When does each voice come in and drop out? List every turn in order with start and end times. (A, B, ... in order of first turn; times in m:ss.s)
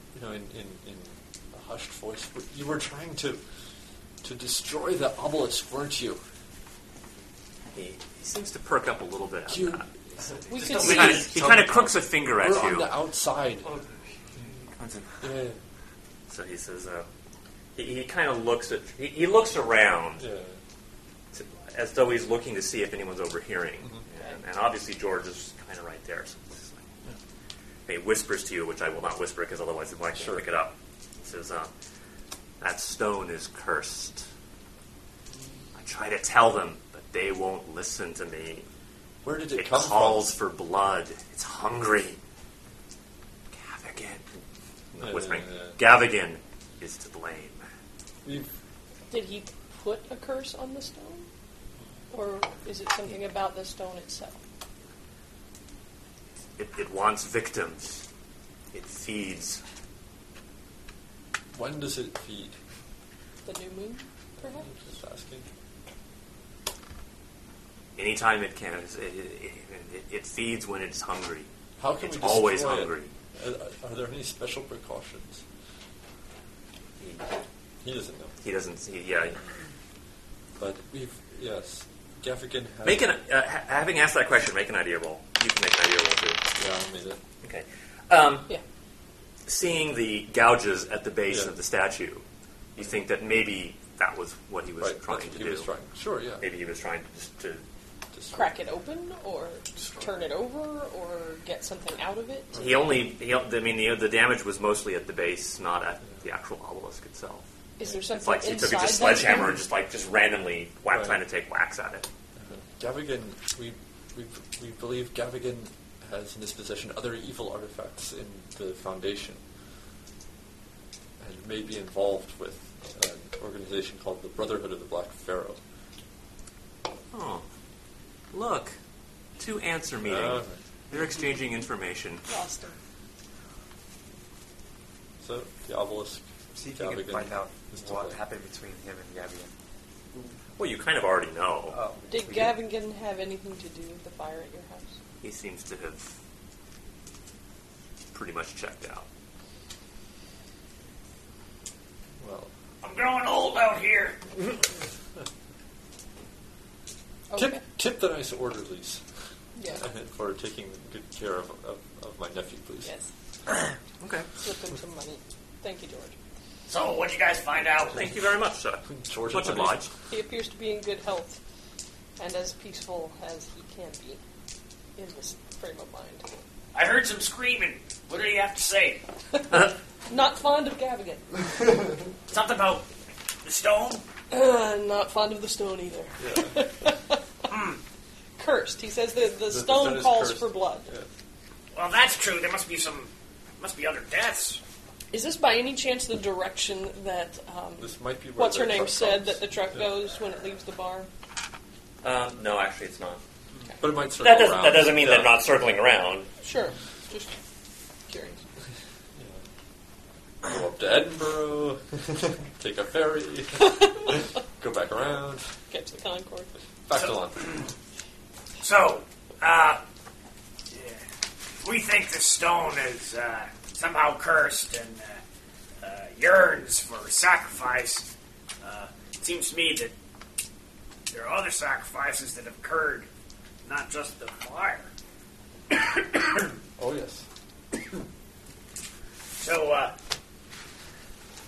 0:00.1-0:03.4 A
0:04.2-0:06.2 A
0:07.7-0:09.8 B
0:09.5-0:13.7 A
0:10.5-0:11.3 C
0:10.5-0:12.9 B
0:10.8-0:11.5 D
0:14.4-0:15.3 D
0:15.2-0:15.6 A
0:16.3-0:17.1 B
0:17.7-0:20.2 B
0:20.2-0:20.6 A
0:21.3-0:26.9 B
0:27.9-0:31.7 B
0:30.1-0:30.4 A
0:32.6-0:34.2 B
0:35.7-0:38.6 B
0:39.2-0:40.3 A
0:39.6-0:42.2 B
0:43.5-0:44.4 B
0:44.9-0:47.6 B
0:45.0-0:45.8 A
0:48.2-0:48.5 A
0:49.1-0:51.3 C
0:52.1-0:54.4 C
0:56.6-0:58.0 B
0:58.7-0:59.6 B
1:01.5-1:02.5 A
1:03.4-1:04.7 C
1:04.4-1:05.5 A
1:08.0-1:11.5 B
1:11.8-1:15.4 A
1:12.0-1:13.1 B
1:17.0-1:17.3 B
1:17.8-1:18.4 A
1:18.4-1:19.4 B
1:20.6-1:23.2 A
1:22.8-1:26.4 B
1:26.6-1:27.2 A
1:27.4-1:28.5 B
1:29.4-1:32.2 B
1:31.3-1:31.5 A
1:32.7-1:35.7 B
1:34.8-1:36.5 A
1:36.4-1:37.6 B
1:38.1-1:38.5 A
1:38.3-1:42.6 C
1:42.5-1:42.8 A
1:42.5-1:47.4 B
1:47.8-1:49.6 C
1:48.1-1:52.1 B
1:50.9-1:51.2 A
1:52.4-1:59.4 A
2:01.2-2:05.6 A
2:07.1-2:07.4 B
2:08.3-2:08.8 B
2:09.4-2:12.2 B
2:10.0-2:10.6 A
2:12.3-2:12.8 C
2:15.2-2:16.2 A
2:16.5-2:19.5 D
2:16.8-2:18.2 A
2:20.6-2:21.8 B
2:21.7-2:22.6 D
2:22.1-2:24.9 C
2:25.2-2:26.1 B
2:28.1-2:29.0 B
2:32.2-2:32.5 A
2:32.8-2:34.2 E
2:37.3-2:37.6 C
2:37.4-2:39.0 A
2:39.6-2:39.8 C
2:39.8-2:42.9 A
2:44.0-2:44.3 B
2:44.4-2:46.2 C
2:46.7-2:48.0 E
2:47.9-2:49.9 B
2:48.9-2:49.8 A
2:50.1-2:51.4 C
2:52.2-2:54.2 C
2:55.0-2:56.2 C
2:56.7-2:59.0 E
3:00.1-3:01.3 C
3:02.3-3:02.8 E
3:03.4-3:04.0 E
3:04.3-3:07.2 C
3:06.2-3:06.6 A
3:07.5-3:07.8 E
3:08.4-3:10.9 C
3:09.4-3:11.1 A
3:11.7-3:14.6 E
3:15.1-3:21.1 C
3:17.8-3:19.4 A
3:22.0-3:23.2 B
3:23.8-3:25.4 A
3:24.2-3:26.3 B
3:26.4-3:27.4 C
3:28.1-3:28.4 C
3:29.2-3:29.4 A
3:30.4-3:35.5 A
3:33.6-3:34.1 C
3:35.7-3:36.5 C
3:36.9-3:37.5 A
3:37.0-3:37.6 E
3:38.6-3:39.8 E
3:40.7-3:41.0 E
3:41.6-3:45.2 E
3:45.8-3:48.1 E
3:48.6-3:49.9 E
3:51.1-3:53.1 E
3:53.6-3:54.9 E
3:56.8-3:57.2 A
3:59.4-3:59.9 E